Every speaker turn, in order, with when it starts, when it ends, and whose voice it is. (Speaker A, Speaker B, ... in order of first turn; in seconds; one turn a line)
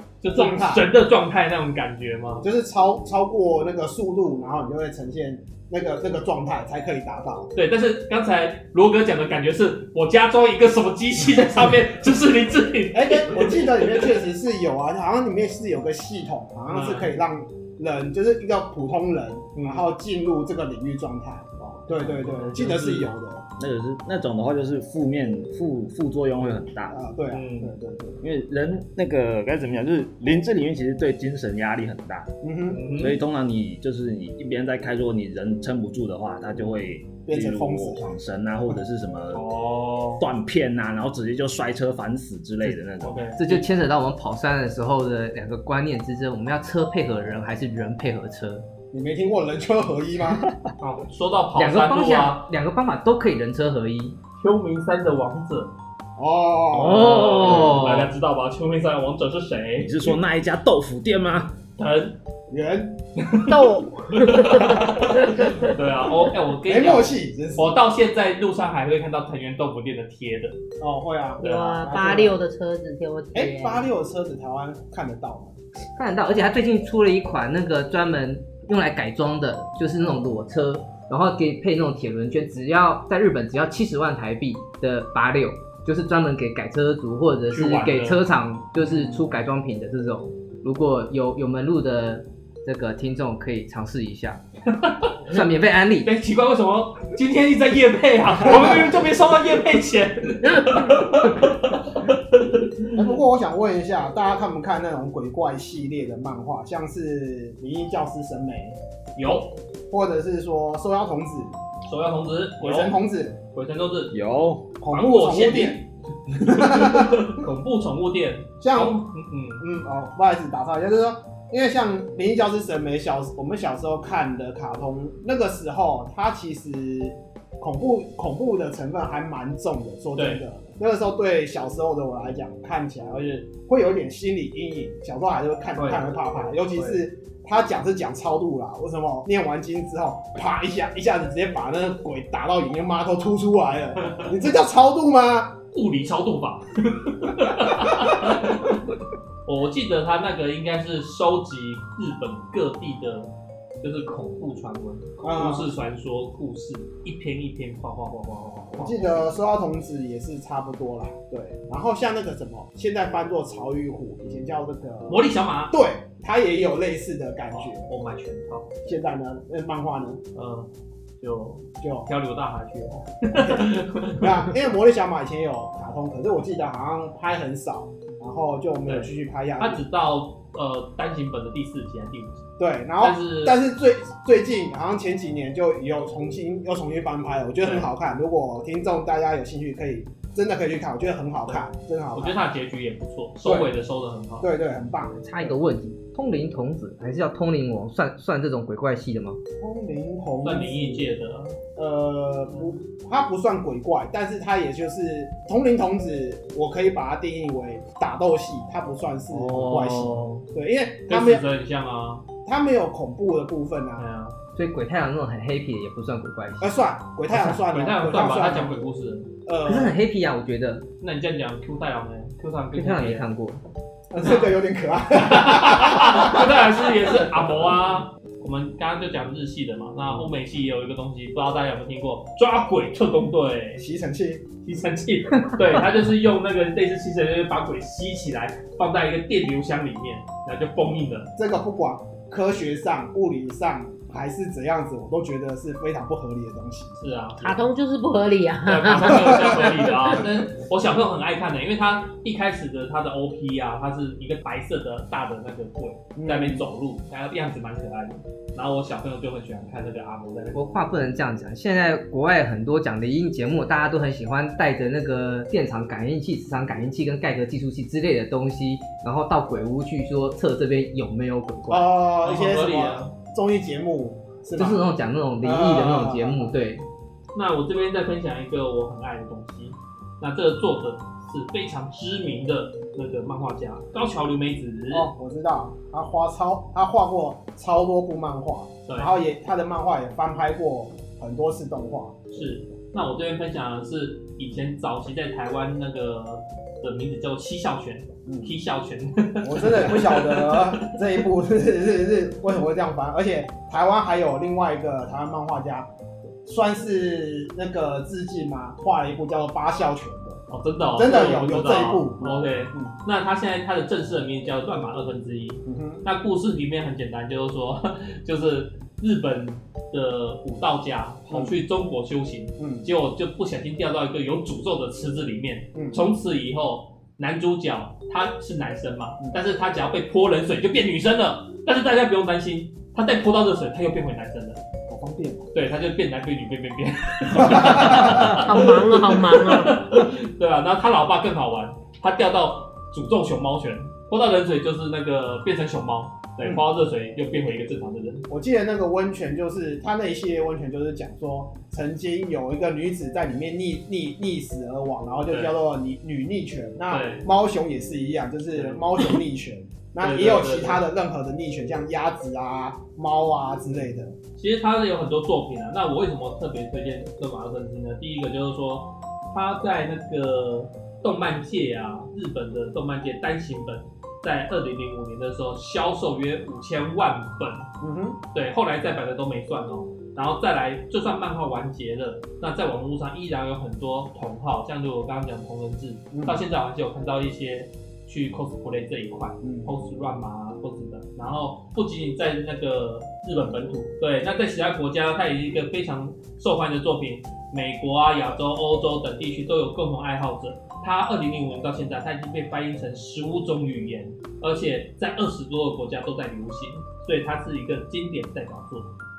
Speaker A: 0.2-2.4
Speaker B: 0.3-0.9
Speaker B: 2.4-7.5
Speaker A: 7.5-14.2
Speaker B: 12.9-23.4
Speaker A: 16.7-17.2
Speaker A: 19.6-19.9
Speaker A: 21.8-23.1
Speaker C: 23.6-27.0
Speaker B: 26.9-28.2
Speaker A: 27.3-27.7
Speaker C: 28.2-32.3
Speaker B: 32.4-32.9
Speaker A: 32.7-33.2
Speaker C: 32.9-39.4
Speaker B: 37.2-38.1
Speaker A: 39.3-40.2
Speaker C: 40.2-43.2
Speaker A: 43.0-43.7
Speaker D: 43.4-48.6
Speaker B: 48.9-50.4
Speaker A: 50.8-52.5
Speaker D: 51.5-54.1
Speaker A: 54.4-55.7
Speaker B: 56.2-57.7
Speaker D: 56.7-58.1
Speaker A: 56.8-60.1
Speaker C: 59.8-61.5
Speaker A: 61.8-62.2
Speaker B: 62.5-63.0
Speaker A: 63.2-70.6
Speaker E: 63.4-65.7
Speaker B: 64.9-65.5
Speaker B: 66.6-67.8
Speaker B: 70.8-72.4
Speaker A: 71.4-71.8
Speaker E: 71.4-73.9
Speaker B: 73.3-75.6
Speaker D: 75.9-94.4
Speaker A: 87.5-88.2
Speaker B: 88.9-89.2
Speaker A: 94.7-95.4
Speaker D: 95.3-96.1
Speaker A: 96.0-103.0
Speaker B: 102.9-108.8
Speaker A: 109.2-109.5
Speaker B: 109.9-111.5
Speaker A: 111.9-113.0
Speaker B: 112.6-113.4
Speaker A: 113.5-114.1
Speaker C: 114.1-114.7
Speaker B: 114.8-115.8
Speaker A: 114.9-119.6
Speaker B: 116.4-117.4
Speaker B: 118.6-119.0
Speaker B: 119.6-145.6
Speaker A: 130.2-130.4
Speaker A: 135.7-137.0
Speaker A: 144.0-144.3
Speaker A: 145.7-148.8
Speaker B: 147.7-148.4
Speaker A: 149.4-159.3
Speaker B: 155.2-155.7
Speaker B: 158.7-167.8
Speaker A: 165.1-165.8
Speaker A: 167.5-168.9
Speaker B: 168.8-170.2
Speaker A: 170.3-170.7
Speaker A: 171.2-174.5
Speaker B: 171.8-172.1
Speaker B: 173.3-179.8
Speaker A: 178.8-182.4
Speaker B: 182.6-192.4
Speaker A: 183.0-183.6
Speaker A: 187.6-187.9
Speaker A: 191.5-194.5
Speaker B: 193.4-193.7
Speaker B: 194.4-195.6
Speaker D: 195.2-199.4
Speaker B: 199.6-201.1
Speaker A: 200.4-201.6
Speaker B: 201.8-211.4
Speaker A: 209.3-210.4
Speaker A: 211.1-212.2
Speaker B: 212.4-214.1
Speaker A: 214.0-214.4
Speaker D: 214.5-216.7
Speaker B: 216.6-218.8
Speaker A: 217.3-219.3
Speaker B: 219.4-219.9
Speaker D: 219.7-220.8
Speaker A: 221.0-223.2
Speaker D: 222.7-223.6
Speaker B: 224.1-226.7
Speaker A: 224.2-224.5
Speaker A: 225.1-233.8
Speaker B: 233.8-234.5
Speaker A: 234.6-241.3
Speaker B: 241.4-247.0
Speaker A: 247.0-247.6
Speaker E: 247.4-250.2
Speaker A: 248.6-260.7
Speaker B: 249.1-249.7
Speaker B: 256.1-256.6
Speaker D: 260.5-271.9
Speaker B: 271.7-274.9
Speaker A: 272.2-273.1
Speaker D: 274.6-276.8
Speaker B: 275.4-276.5
Speaker A: 277.3-285.1
Speaker B: 284.9-292.4
Speaker A: 288.9-289.1
Speaker A: 292.3-301.0
Speaker B: 298.2-298.6
Speaker B: 299.4-305.9
Speaker B: 306.4-310.4
Speaker A: 310.5-334.6
Speaker B: 310.9-312.9
Speaker B: 315.6-316.0
Speaker B: 321.3-321.6
Speaker B: 322.6-322.9
Speaker B: 325.7-326.0
Speaker B: 334.9-335.5
Speaker A: 335.5-348.3
Speaker B: 337.3-338.4
Speaker E: 338.2-339.9
Speaker B: 346.4-346.6
Speaker B: 348.3-364.1
Speaker A: 355.3-355.5
Speaker A: 356.9-357.2
Speaker A: 358.5-359.2
Speaker A: 360.0-360.8
Speaker A: 363.7-377.7
Speaker B: 377.8-378.2
Speaker A: 378.3-408.9
Speaker B: 386.1-386.4
Speaker B: 389.4-389.7